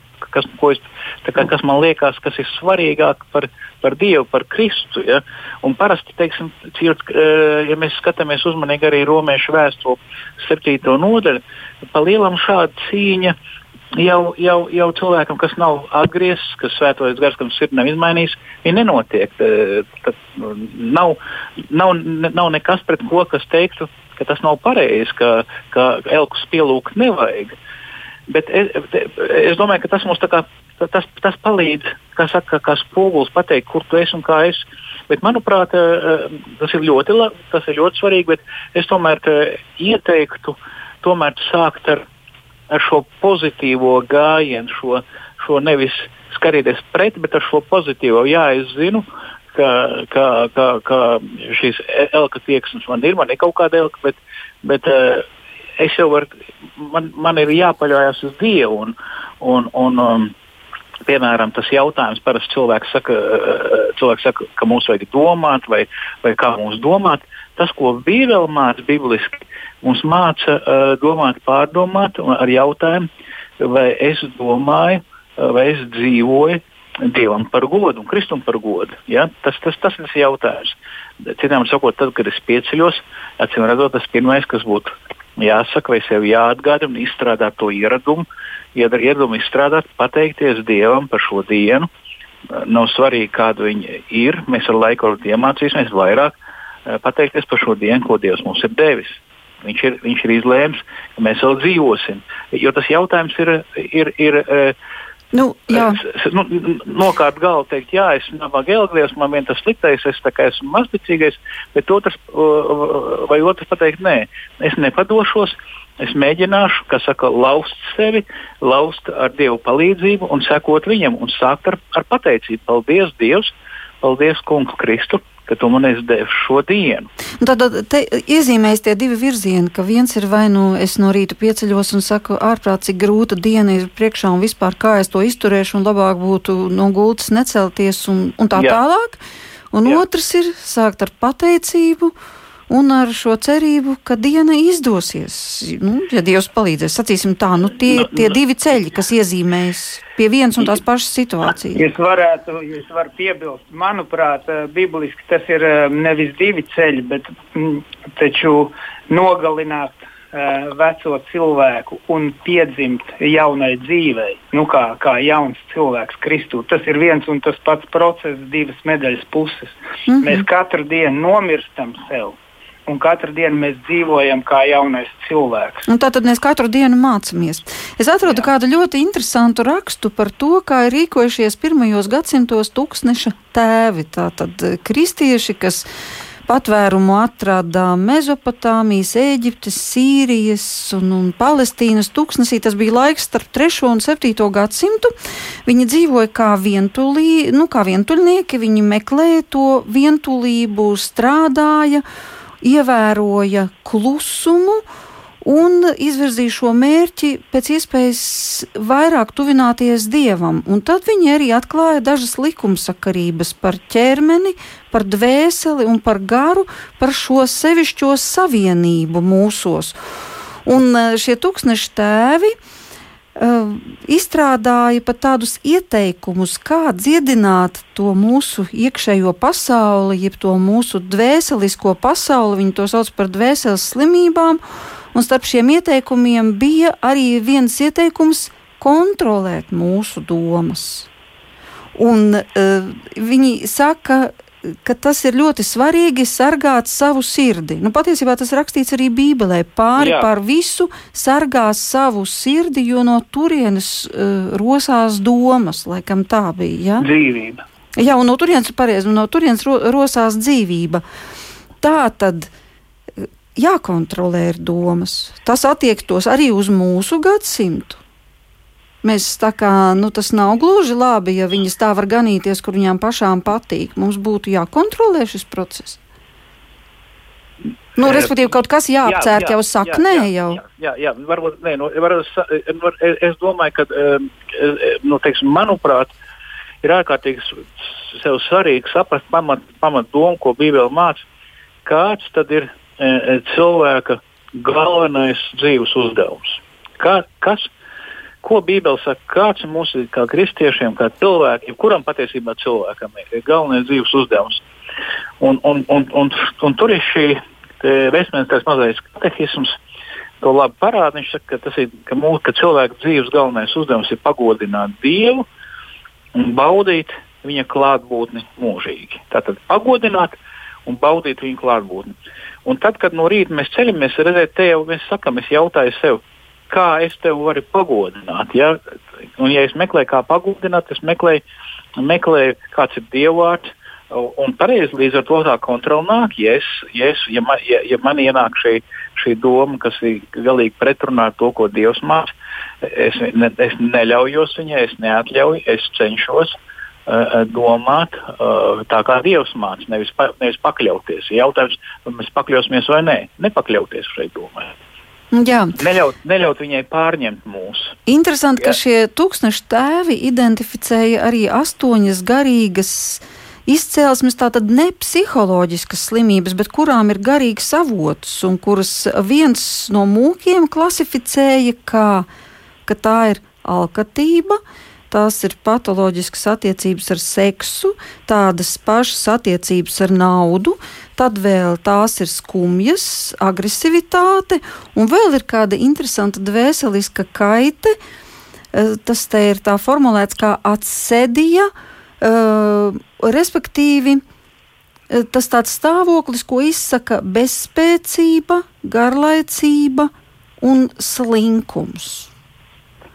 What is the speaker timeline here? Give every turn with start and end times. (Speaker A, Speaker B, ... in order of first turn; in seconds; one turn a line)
Speaker A: 0.3-13.4
Speaker A: 13.9-21.2
Speaker A: 21.7-27.6
Speaker A: 28.3-42.0
Speaker A: 42.7-55.3
Speaker A: 55.8-60.3
Speaker A: 61.1-73.1
Speaker A: 73.6-91.9
Speaker A: 92.5-96.3
Speaker A: 96.9-104.8
Speaker B: 105.3-106.0
Speaker A: 105.7-127.1
Speaker B: 127.4-139.2
Speaker A: 138.6-138.8
Speaker B: 139.7-142.2
Speaker B: 142.7-151.8
Speaker C: 151.8-175.9
Speaker B: 170.1-170.4
Speaker B: 175.9-185.9
Speaker B: 186.5-195.1
Speaker B: 195.7-202.0
Speaker B: 202.6-204.8
Speaker B: 205.4-220.0
Speaker B: 220.7-222.6
Speaker B: 223.4-234.6
Speaker B: 235.1-241.1
Speaker B: 241.9-257.1
Speaker A: 250.0-250.3
Speaker C: 257.0-257.6
Speaker B: 258.0-261.0
Speaker B: 261.8-262.5
Speaker B: 263.2-268.0
Speaker B: 269.0-276.0
Speaker B: 278.0-280.6
Speaker A: 278.0-278.4
Speaker A: 279.1-286.1
Speaker A: 286.8-291.2
Speaker A: 291.9-297.7
Speaker A: 298.4-304.6
Speaker A: 305.4-309.8
Speaker A: 310.4-315.4
Speaker A: 316.3-322.1
Speaker A: 322.6-328.8
Speaker A: 329.4-331.4
Speaker A: 332.0-342.3
Speaker A: 342.8-346.6
Speaker A: 347.1-354.7
Speaker B: 355.3-355.8
Speaker A: 355.8-358.0
Speaker B: 358.1-372.3
Speaker B: 372.9-388.0
Speaker B: 388.7-391.7
Speaker B: 392.2-394.2
Speaker B: 395.1-402.3